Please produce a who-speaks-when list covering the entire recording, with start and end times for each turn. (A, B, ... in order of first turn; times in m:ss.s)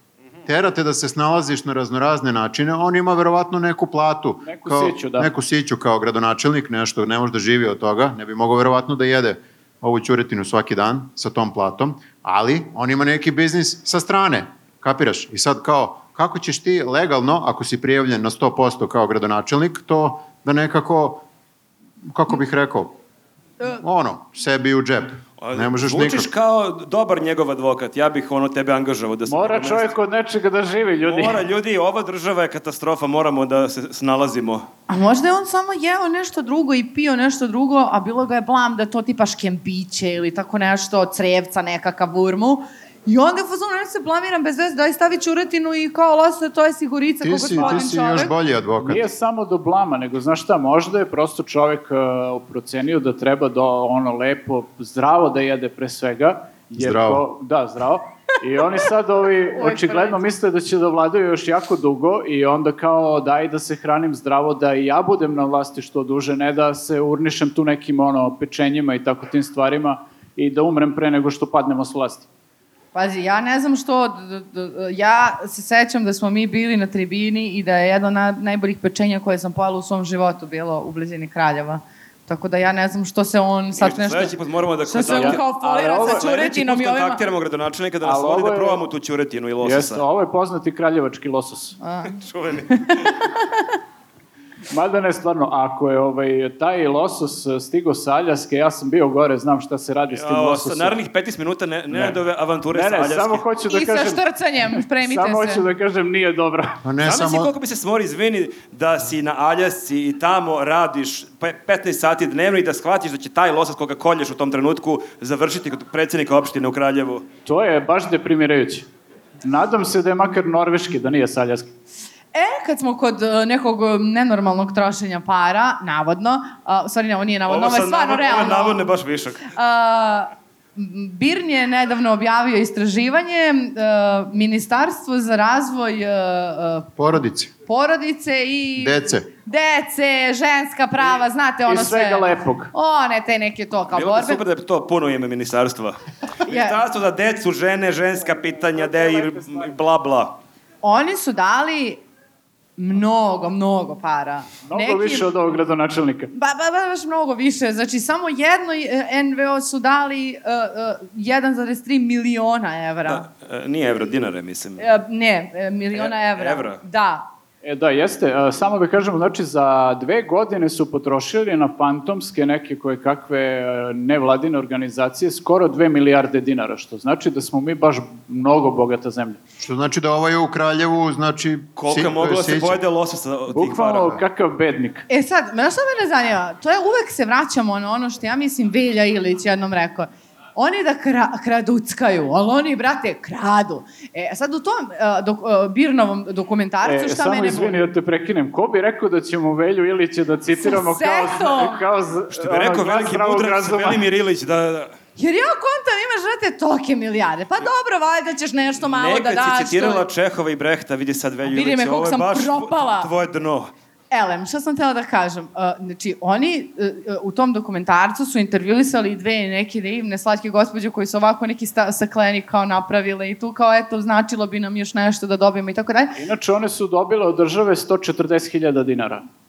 0:00.4-0:21.2 A
0:04.4-0:05.3 B
0:22.0-0:22.9 A
0:23.6-0:26.3 A
0:25.4-0:29.9 C
0:29.3-0:31.4 B
0:31.0-0:34.7 C
0:34.9-0:48.3 D
0:47.2-0:49.0 A
0:47.6-0:47.8 B
0:48.8-1:12.3 B
0:56.8-0:57.2 A
0:59.6-1:00.2 D
1:12.9-1:24.4 D
1:23.8-1:30.0 C
1:24.9-1:27.2 D
1:25.0-1:26.3 B
1:28.0-1:28.8 B
1:29.6-1:31.8 B
1:31.8-1:33.2 D
1:32.1-1:33.1 C
1:34.7-1:41.0 B
1:40.1-1:43.4 C
1:41.9-1:42.2 B
1:42.7-1:44.2 B
1:43.7-1:45.6 D
1:44.8-1:46.8 B
1:46.8-1:47.5 A
1:47.0-1:57.2 C
1:57.4-1:58.9 B
1:59.4-2:01.7 B
2:02.3-2:08.9 D
2:07.5-2:09.5 C
2:09.5-2:16.9 D
2:17.0-2:17.5 A
2:17.7-2:24.4 D
2:18.8-2:19.3 A
2:21.7-2:22.7 B
2:23.9-2:30.4 C
2:26.5-2:26.8 D
2:28.8-2:29.6 B
2:30.8-2:32.0 D
2:32.8-2:35.3 D
2:34.6-2:36.3 B
2:36.3-2:43.2 D
2:43.0-2:44.9 C
2:44.8-2:47.3 D
2:45.9-2:46.8 C
2:47.6-2:59.4 B
2:59.6-3:02.8 A
3:01.8-3:04.2 C
3:03.5-3:05.1 B
3:05.1-3:17.8 D
3:16.8-3:24.0 B
3:20.6-3:21.8 D
3:22.3-3:24.9 C
3:25.2-3:30.0 D
3:28.8-3:33.7 C
3:31.4-3:33.1 D
3:34.1-3:46.2 D
3:46.1-3:49.2 B